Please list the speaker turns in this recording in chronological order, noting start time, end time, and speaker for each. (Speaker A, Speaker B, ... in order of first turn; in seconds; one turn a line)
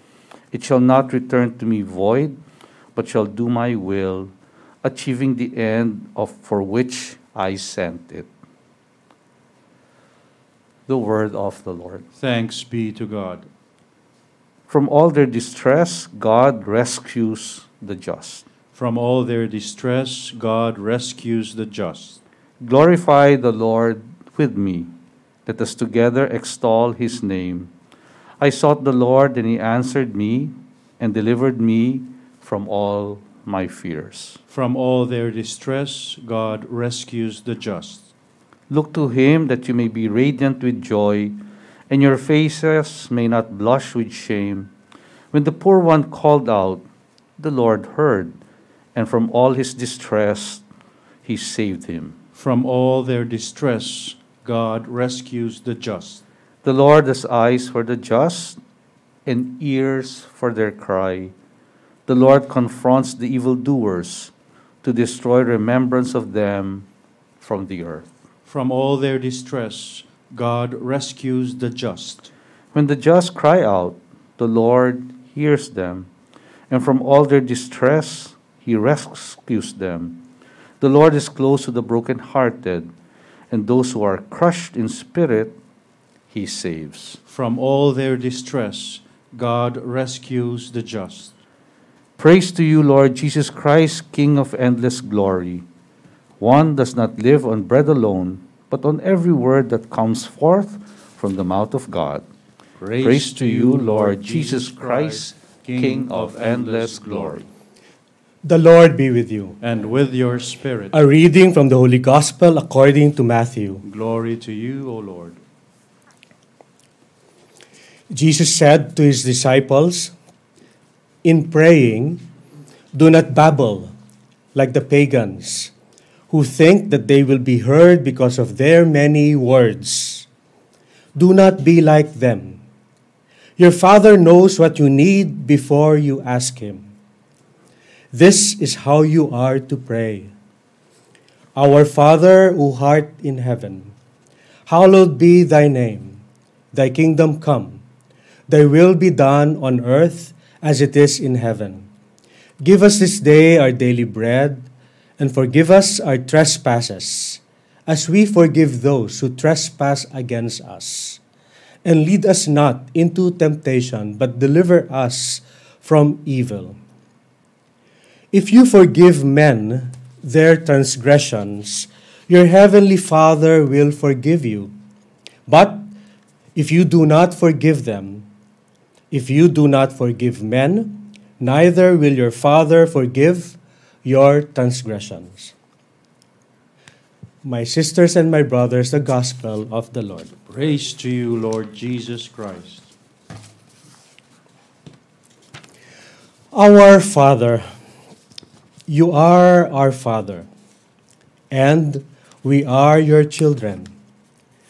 Speaker A: 0.5-2.4
Speaker A: 3.0-4.3
Speaker A: 4.8-8.3
Speaker A: 10.9-12.1
Speaker B: 12.2-13.5
Speaker A: 14.7-18.5
Speaker B: 18.7-22.2
Speaker A: 22.6-24.9
Speaker A: 25.5-27.7
Speaker A: 28.4-34.4
Speaker B: 34.5-38.1
Speaker A: 38.7-41.4
Speaker A: 41.9-44.7
Speaker A: 45.3-46.8
Speaker A: 47.4-48.4
Speaker A: 49.0-50.6
Speaker A: 51.2-52.2
Speaker B: 52.4-56.2
Speaker A: 56.6-58.6
Speaker A: 59.3-61.3
Speaker A: 62.1-64.3
Speaker A: 64.8-66.9
Speaker A: 67.4-68.1
Speaker B: 68.5-72.3
Speaker A: 72.7-76.1
Speaker A: 76.7-80.2
Speaker A: 80.8-82.9
Speaker A: 83.5-85.5
Speaker A: 86.3-87.2
Speaker B: 87.3-91.3
Speaker A: 92.2-95.6
Speaker A: 96.4-102.2
Speaker B: 102.8-107.5
Speaker A: 103.0-107.5
Speaker C: 108.4-109.6
Speaker B: 109.6-110.9
Speaker C: 110.9-113.8
Speaker B: 113.8-115.4
Speaker C: 118.1-120.1
Speaker C: 121.2-122.2
Speaker C: 122.9-123.9
Speaker C: 124.5-125.7
Speaker C: 126.3-130.3
Speaker C: 131.2-132.6
Speaker C: 133.6-136.9
Speaker C: 138.1-140.3
Speaker C: 141.6-143.9
Speaker C: 144.7-146.2
Speaker C: 146.7-147.8
Speaker C: 148.5-151.9
Speaker C: 152.6-154.7
Speaker C: 155.2-161.2
Speaker C: 161.8-166.8
Speaker C: 168.3-174.7
Speaker C: 175.5-175.9
Speaker C: 176.6-178.3
Speaker C: 179.1-185.5
Speaker C: 187.4-190.3
Speaker B: 190.5-192.9
Speaker C: 196.5-197.7
Speaker C: 198.9-200.5
Speaker C: 201.5-203.9